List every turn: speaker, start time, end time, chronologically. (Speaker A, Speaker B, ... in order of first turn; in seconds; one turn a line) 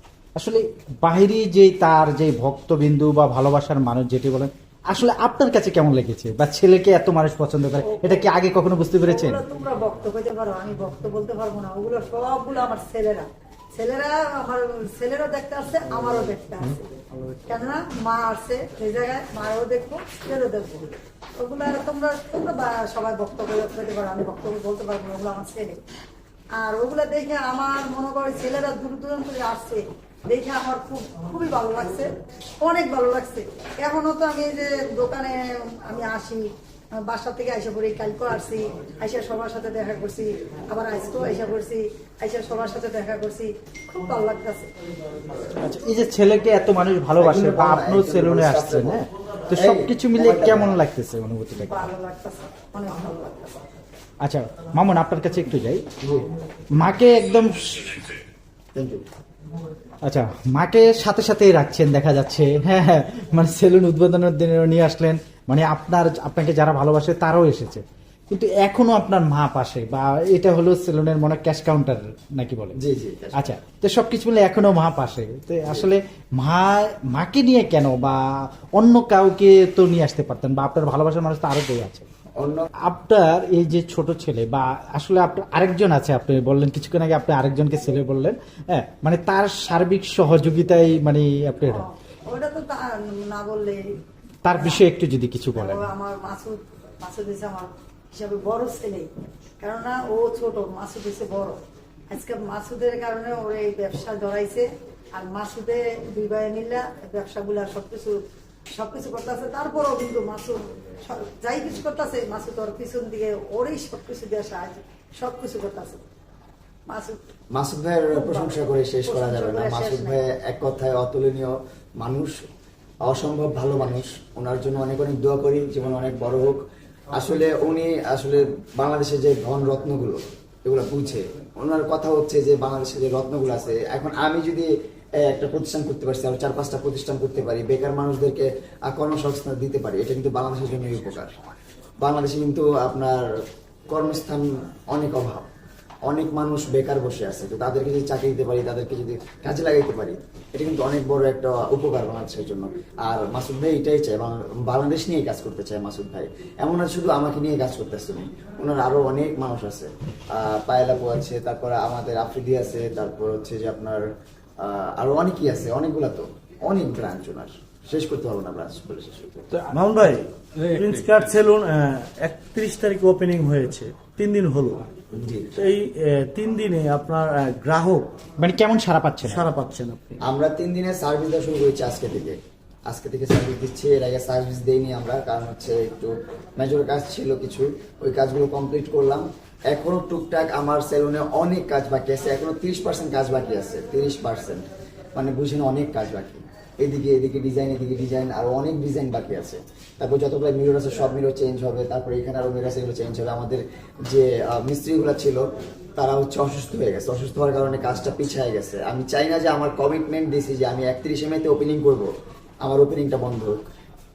Speaker A: 0.3-9.4
Speaker B: 7.8-8.3
Speaker B: 9.0-16.9
Speaker B: 17.4-25.8
Speaker B: 26.6-32.1
Speaker B: 32.6-36.5
Speaker B: 37.1-44.7
Speaker A: 45.6-51.8
Speaker C: 47.2-49.0
Speaker C: 49.5-50.9
Speaker B: 51.6-53.6
Speaker A: 54.2-55.9
Speaker A: 56.8-58.1
Speaker C: 58.8-59.0
Speaker A: 60.0-72.8
Speaker C: 72.8-73.5
Speaker A: 73.4-78.2
Speaker A: 78.8-82.1
Speaker C: 82.4-82.7
Speaker A: 82.9-91.9
Speaker B: 91.7-94.0
Speaker A: 94.4-95.8
Speaker B: 94.5-94.9
Speaker B: 95.5-99.1
Speaker B: 99.6-101.6
Speaker B: 102.1-108.2
Speaker B: 108.8-116.0
Speaker B: 116.9-117.2
Speaker C: 117.5-122.4
Speaker B: 118.1-120.2
Speaker C: 123.1-141.3
Speaker C: 142.0-143.3
Speaker C: 143.9-145.5
Speaker C: 146.1-164.1
Speaker C: 164.6-169.5
Speaker D: 169.7-174.8
Speaker C: 175.1-175.5
Speaker D: 175.5-178.1
Speaker A: 178.4-179.5
Speaker D: 179.3-180.2
Speaker C: 180.2-205.4
Speaker C: 206.0-212.1
Speaker C: 212.6-213.6